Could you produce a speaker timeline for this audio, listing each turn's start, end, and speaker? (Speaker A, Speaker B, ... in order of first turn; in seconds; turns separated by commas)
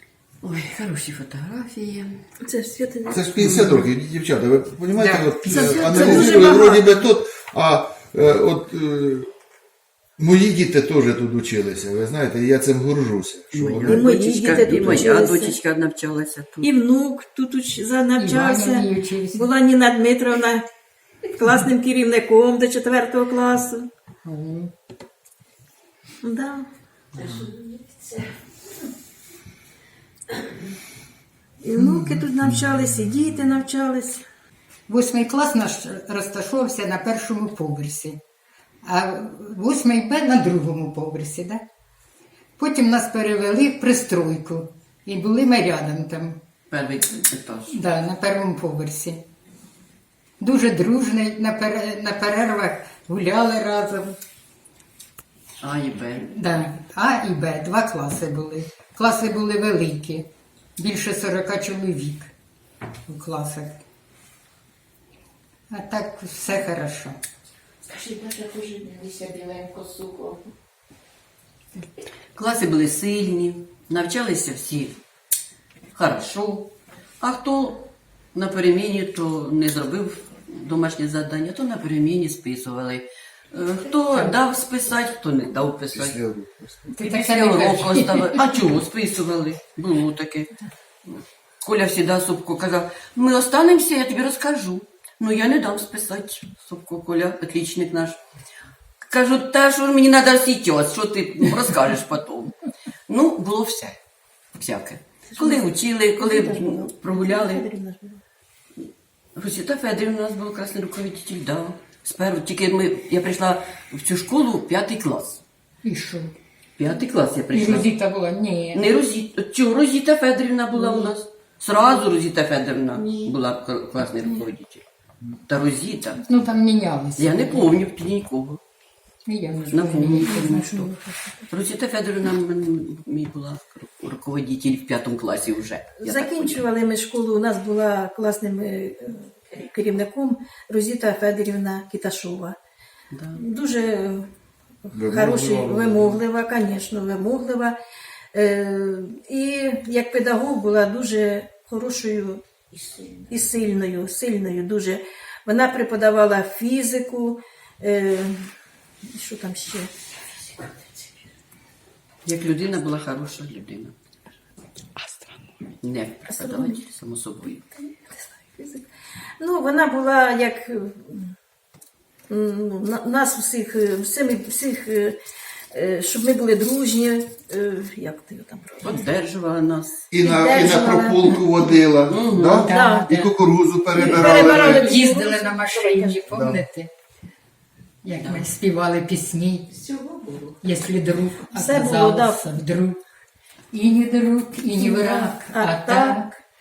Speaker A: 0.4-2.2, Speaker B: 2.4-3.3, Speaker C: 3.1-9.3, Speaker D: 3.4-3.9, Speaker D: 5.0-6.6, Speaker B: 5.5-7.0, Speaker C: 10.2-14.0, Speaker A: 13.5-16.7, Speaker B: 13.8-15.6, Speaker C: 14.6-15.1, Speaker B: 16.6-20.6, Speaker D: 18.2-19.5, Speaker B: 21.4-23.9, Speaker D: 24.2-24.7, Speaker B: 26.2-26.7, Speaker E: 27.1-28.3, Speaker B: 31.6-34.2, Speaker D: 34.9-38.2, Speaker D: 38.8-41.6, Speaker D: 42.6-46.4, Speaker A: 46.7-47.8, Speaker D: 47.7-49.2, Speaker D: 50.4-54.2, Speaker A: 55.6-56.3, Speaker D: 56.2-62.3, Speaker D: 63.1-63.8, Speaker D: 65.7-67.2, Speaker E: 67.8-70.5, Speaker A: 72.3-75.0, Speaker A: 75.9-86.2, Speaker C: 85.9-86.8, Speaker D: 86.9-88.4, Speaker A: 87.0-90.5, Speaker A: 91.1-98.2, Speaker A: 99.1-102.5, Speaker A: 103.1-104.0, Speaker A: 104.6-107.7, Speaker B: 105.3-105.7, Speaker B: 106.2-108.2, Speaker A: 109.3-115.4, Speaker D: 115.8-116.3, Speaker A: 116.8-117.9, Speaker D: 117.5-118.8, Speaker A: 118.7-124.8, Speaker A: 125.5-126.2, Speaker D: 126.3-127.8, Speaker A: 127.2-128.6, Speaker D: 129.2-130.9, Speaker A: 129.7-130.9, Speaker B: 130.2-131.4, Speaker A: 131.5-136.6, Speaker B: 136.0-142.6, Speaker A: 143.1-143.4, Speaker B: 143.3-144.3, Speaker B: 144.9-147.8, Speaker C: 144.9-146.2, Speaker B: 148.3-152.4, Speaker E: 152.7-153.5, Speaker B: 153.3-158.5, Speaker B: 159.1-159.9, Speaker E: 160.4-160.9, Speaker A: 162.2-163.9, Speaker D: 165.0-165.5, Speaker A: 165.8-167.6, Speaker B: 166.3-166.8, Speaker B: 167.8-168.9, Speaker B: 169.4-171.3, Speaker B: 172.3-175.2, Speaker B: 175.7-179.0, Speaker A: 178.8-180.0, Speaker C: 180.1-184.9, Speaker B: 180.2-181.4, Speaker A: 182.1-182.7, Speaker D: 182.6-183.2, Speaker B: 182.7-183.1, Speaker B: 183.9-186.2, Speaker D: 183.9-186.9, Speaker C: 186.3-186.6, Speaker D: 188.0-189.7, Speaker A: 188.2-188.5, Speaker E: 189.7-190.6, Speaker D: 190.6-193.0, Speaker B: 191.5-192.4, Speaker D: 193.7-196.3, Speaker B: 194.8-196.3